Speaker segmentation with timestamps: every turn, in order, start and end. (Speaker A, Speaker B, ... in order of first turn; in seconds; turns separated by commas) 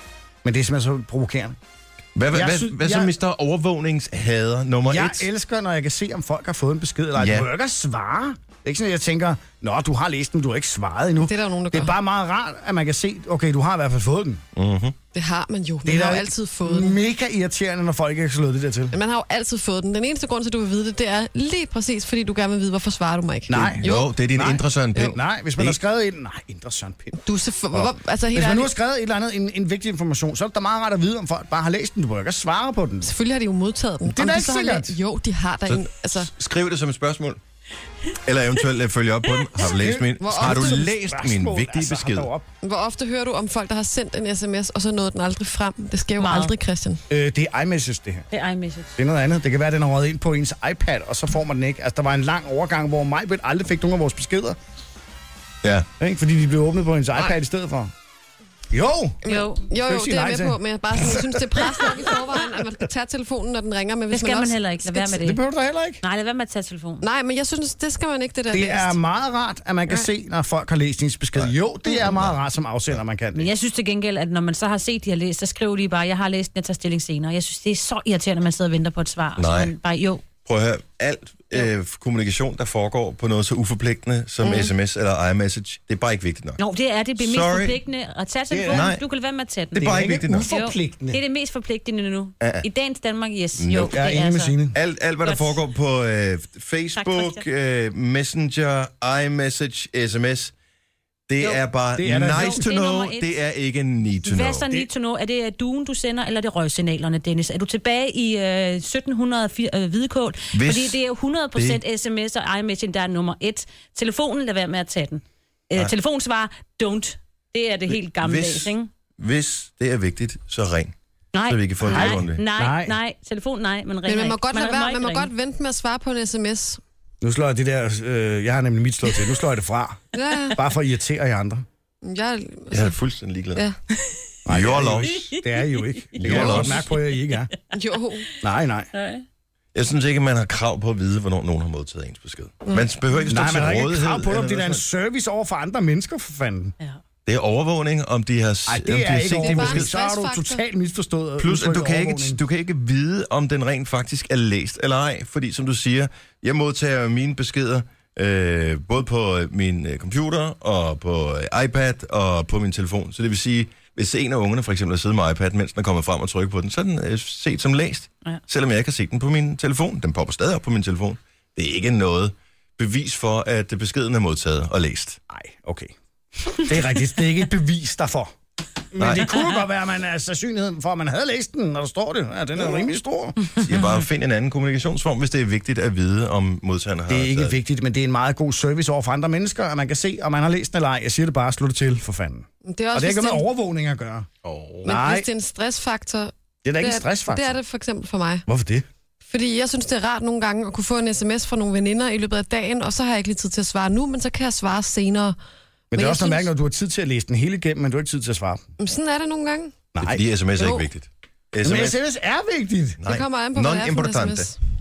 Speaker A: 0.4-1.6, Speaker B: 2.1-5.3, Speaker A: 2.3-3.1, Speaker A: 4.9-14.4, Speaker B: 7.2-7.5, Speaker C: 11.2-11.9, Speaker B: 14.6-14.9, Speaker C: 15.1-17.0, Speaker A: 15.8-19.0, Speaker C: 18.9-25.1, Speaker A: 23.5-27.2, Speaker B: 23.6-25.8, Speaker C: 27.2-28.7, Speaker A: 28.3-33.1, Speaker C: 33.0-36.3, Speaker A: 34.0-35.0, Speaker B: 35.7-37.4, Speaker B: 38.2-42.3, Speaker A: 39.6-42.5, Speaker C: 40.2-40.9, Speaker C: 42.6-47.0, Speaker D: 46.2-46.5, Speaker A: 47.1-48.3, Speaker D: 48.3-48.9, Speaker A: 49.0-54.6, Speaker A: 56.0-57.9, Speaker A: 58.7-59.2, Speaker C: 59.2-65.1, Speaker D: 59.3-59.6, Speaker A: 59.8-62.0, Speaker D: 64.1-65.4, Speaker A: 65.1-66.0, Speaker D: 66.0-67.1, Speaker C: 67.0-68.9, Speaker A: 68.5-73.5, Speaker B: 71.3-72.3, Speaker D: 73.3-80.2, Speaker B: 79.4-79.7, Speaker B: 80.4-86.6, Speaker C: 84.4-84.7, Speaker D: 86.6-94.6, Speaker B: 87.2-87.8, Speaker A: 88.5-88.9, Speaker B: 88.7-89.0, Speaker B: 89.7-90.5, Speaker A: 89.8-91.2, Speaker B: 92.4-92.7, Speaker B: 93.6-94.0, Speaker A: 93.9-94.8, Speaker B: 94.7-100.5, Speaker D: 95.2-95.6, Speaker D: 97.0-97.4, Speaker B: 101.3-104.7, Speaker A: 102.0-102.7, Speaker D: 102.3-103.4, Speaker D: 104.2-118.9, Speaker B: 110.5-111.0, Speaker B: 111.5-111.8, Speaker B: 117.9-120.9, Speaker D: 121.3-125.3, Speaker B: 121.5-122.4, Speaker A: 121.9-123.0, Speaker C: 124.1-126.8, Speaker A: 127.2-130.0, Speaker C: 130.1-130.6, Speaker A: 130.6-131.7, Speaker C: 132.0-133.0, Speaker B: 132.7-133.6, Speaker A: 134.4-137.5, Speaker B: 134.5-135.3, Speaker D: 135.1-136.0, Speaker B: 136.2-136.8, Speaker C: 137.7-138.3, Speaker A: 138.4-138.9, Speaker D: 138.9-139.2, Speaker B: 139.7-144.8, Speaker A: 143.3-146.7, Speaker B: 147.3-149.9, Speaker A: 148.7-152.4, Speaker C: 149.4-150.6, Speaker B: 151.4-175.2, Speaker A: 175.3-175.9, Speaker A: 176.4-178.3, Speaker A: 178.9-183.4, Speaker B: 179.0-179.3, Speaker B: 183.6-187.6, Speaker A: 187.1-194.3, Speaker C: 192.7-193.4, Speaker B: 194.4-194.9, Speaker A: 194.8-195.3, Speaker C: 194.8-198.4, Speaker A: 196.6-197.6, Speaker A: 198.5-198.9, Speaker C: 199.3-205.4, Speaker A: 205.9-208.7, Speaker C: 205.9-206.5, Speaker C: 208.8-209.8, Speaker A: 209.9-210.2, Speaker B: 210.0-212.0, Speaker C: 210.6-210.8, Speaker A: 211.6-213.0, Speaker B: 213.0-214.5, Speaker C: 213.1-214.6